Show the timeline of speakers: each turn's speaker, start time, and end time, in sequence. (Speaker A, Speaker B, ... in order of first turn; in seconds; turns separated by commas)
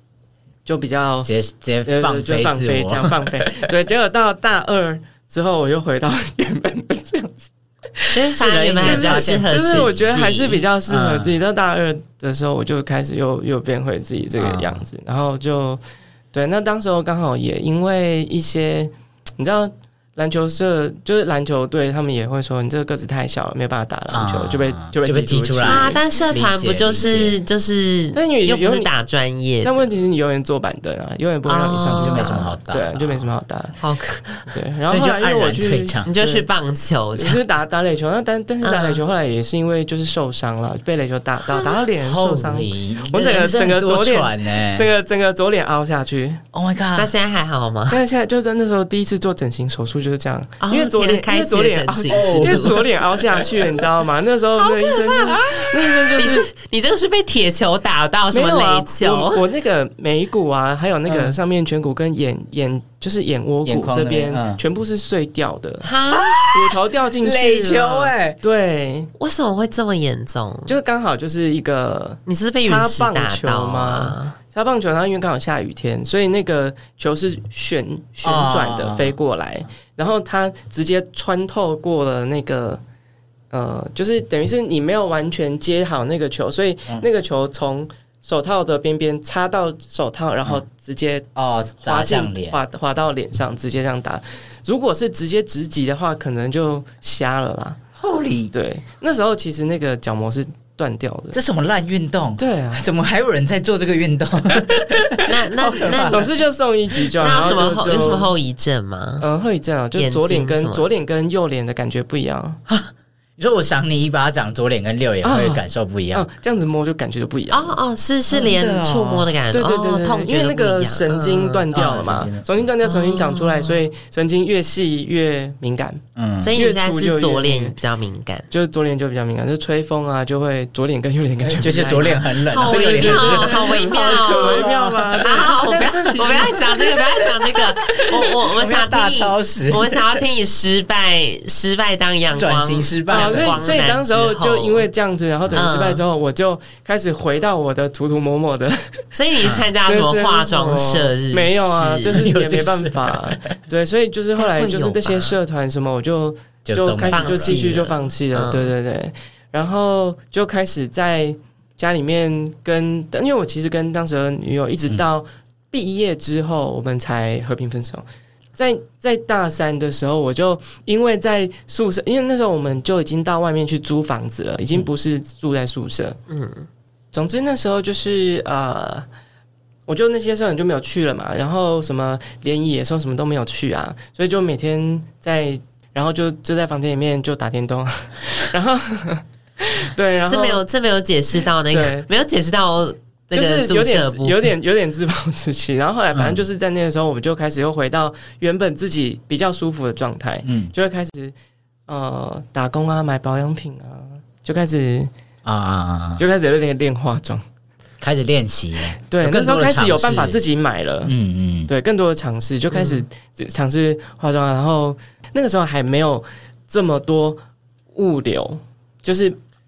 Speaker A: 0.7-1.3, Speaker B: 1.2-3.5, Speaker A: 1.8-8.2, Speaker C: 8.1-10.6, Speaker B: 8.3-10.0, Speaker A: 8.8-15.8, Speaker B: 10.9-11.3, Speaker B: 14.4-14.8, Speaker A: 16.3-26.0, Speaker B: 24.1-27.4, Speaker C: 25.6-29.9, Speaker A: 28.1-28.9, Speaker A: 29.6-33.8, Speaker C: 31.4-32.5, Speaker B: 31.9-33.3, Speaker C: 33.8-34.5, Speaker A: 34.5-36.5, Speaker B: 34.9-36.1, Speaker C: 36.0-37.4, Speaker A: 37.1-46.4, Speaker C: 38.6-39.0, Speaker C: 41.5-41.8, Speaker B: 42.0-44.9, Speaker B: 46.5-47.1, Speaker C: 47.0-48.0, Speaker A: 47.9-56.5, Speaker C: 50.6-52.9, Speaker B: 52.1-52.8, Speaker C: 54.7-59.4, Speaker A: 58.3-65.9, Speaker B: 63.6-64.6, Speaker C: 65.8-66.4, Speaker B: 66.1-68.4, Speaker A: 66.5-69.1, Speaker C: 69.2-70.8, Speaker A: 70.7-82.8, Speaker C: 72.2-74.4, Speaker B: 78.2-79.2, Speaker A: 83.5-91.3, Speaker B: 91.3-92.6, Speaker A: 91.8-97.8, Speaker B: 98.0-98.5, Speaker A: 98.5-101.4, Speaker B: 101.3-106.2, Speaker A: 102.4-102.8, Speaker C: 105.2-106.3, Speaker A: 106.0-108.3, Speaker C: 107.2-109.2, Speaker A: 109.2-112.6, Speaker C: 110.0-110.8, Speaker B: 112.7-116.2, Speaker A: 115.2-117.8, Speaker C: 117.5-121.7, Speaker B: 118.3-119.3, Speaker A: 119.5-126.0, Speaker B: 121.7-122.6, Speaker C: 122.8-123.8, Speaker B: 126.2-126.6, Speaker C: 126.4-128.5, Speaker A: 126.5-127.8, Speaker A: 128.5-136.7, Speaker B: 131.4-135.4, Speaker C: 132.5-144.9, Speaker B: 136.4-140.2, Speaker B: 142.3-143.7, Speaker A: 143.1-149.0, Speaker C: 145.5-146.0, Speaker C: 149.1-152.2, Speaker B: 149.4-149.7, Speaker A: 149.8-168.0, Speaker B: 152.1-153.4, Speaker C: 154.4-155.4, Speaker B: 156.6-157.7, Speaker C: 157.1-158.7, Speaker A: 168.6-176.2, Speaker C: 176.3-176.7, Speaker A: 177.1-179.1, Speaker A: 179.9-190.6, Speaker C: 190.3-194.5, Speaker A: 191.7-192.1, Speaker A: 193.3-201.3, Speaker B: 196.1-196.4, Speaker B: 200.4-200.7, Speaker A: 201.9-205.1, Speaker B: 205.4-206.2, Speaker A: 206.2-207.4, Speaker B: 208.0-210.4, Speaker A: 209.1-211.1, Speaker B: 211.0-211.7, Speaker A: 211.7-217.4, Speaker C: 212.7-213.0, Speaker A: 217.9-219.4